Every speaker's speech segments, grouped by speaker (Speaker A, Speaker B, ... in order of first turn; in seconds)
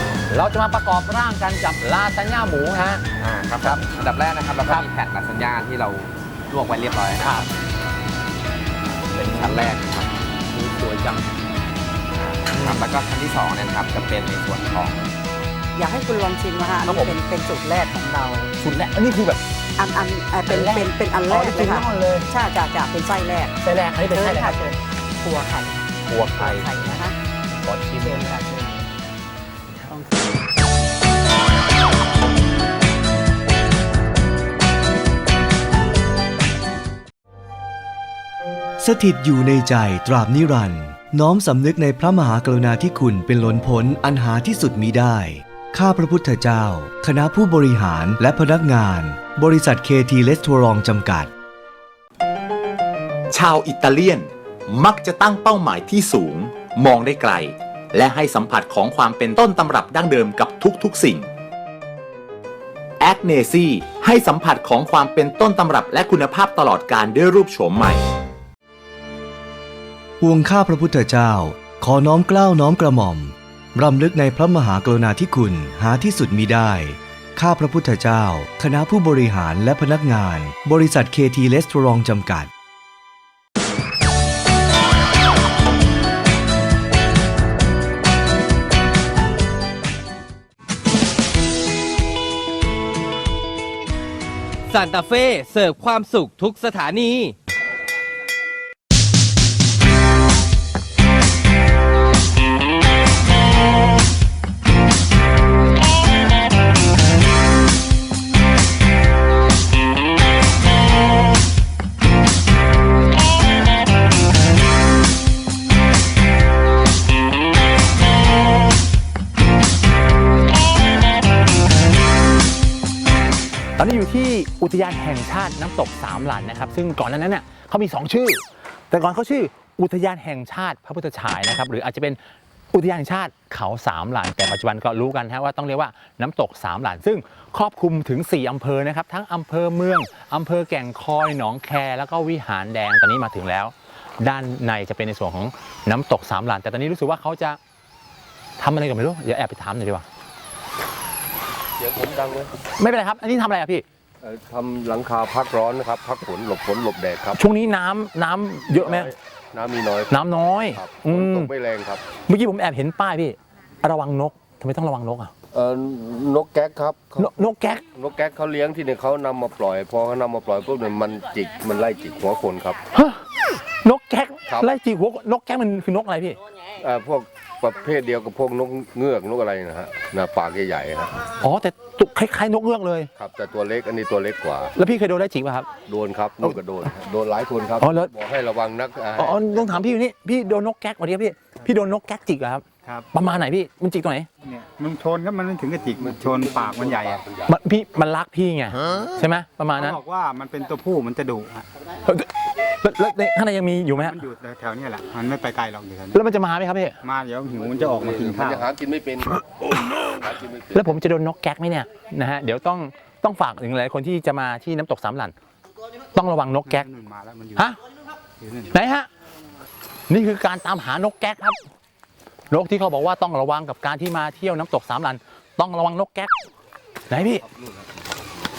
Speaker A: 0.3-3.0, 7.2-7.5, 9.1-9.6, 10.5-11.3, 12.5-12.9, 16.8-17.2, 18.6-19.4, 20.4-22.3, 23.6-24.7, 26.1-26.9, 27.5-28.4, 123.8-132.2, 132.7-147.6, 148.6-150.0, 152.8-153.8, 157.3-159.1, 160.1-161.5, 162.3-165.3, 167.2-167.8, 172.9-173.2, 173.8-176.4, 181.4-183.1, 184.8-185.7, 187.8-188.1, 189.2-194.3, 197.5-200.0, 202.8-204.2, 206.1-206.9, 210.7-215.3, 216.1-216.9, 218.7-219.1, 220.1-221.6, 222.5-226.3, 227.1-227.4
Speaker B: 3.2-7.4, 9.1-10.1, 12.2-15.1
Speaker C: 15.8-18.5, 19.8-23.6, 24.1-27.1, 28.0-28.9, 29.9-30.2
Speaker D: 38.8-51.3, 70.2-82.5
Speaker E: 53.3-61.3, 63.0-68.0
Speaker F: 94.7-97.3
Speaker G: 151.8-152.5, 154.2-157.4, 158.7-160.2, 160.7-162.0, 165.5-167.3, 167.9-172.8, 176.8-181.3, 183.2-184.7, 185.8-189.8, 195.9-197.5, 207.5-211.0, 227.4-228.1
Speaker H: 194.4-197.2, 199.8-201.7, 203.9-206.2, 207.0-208.7, 216.6-217.7, 218.4-218.7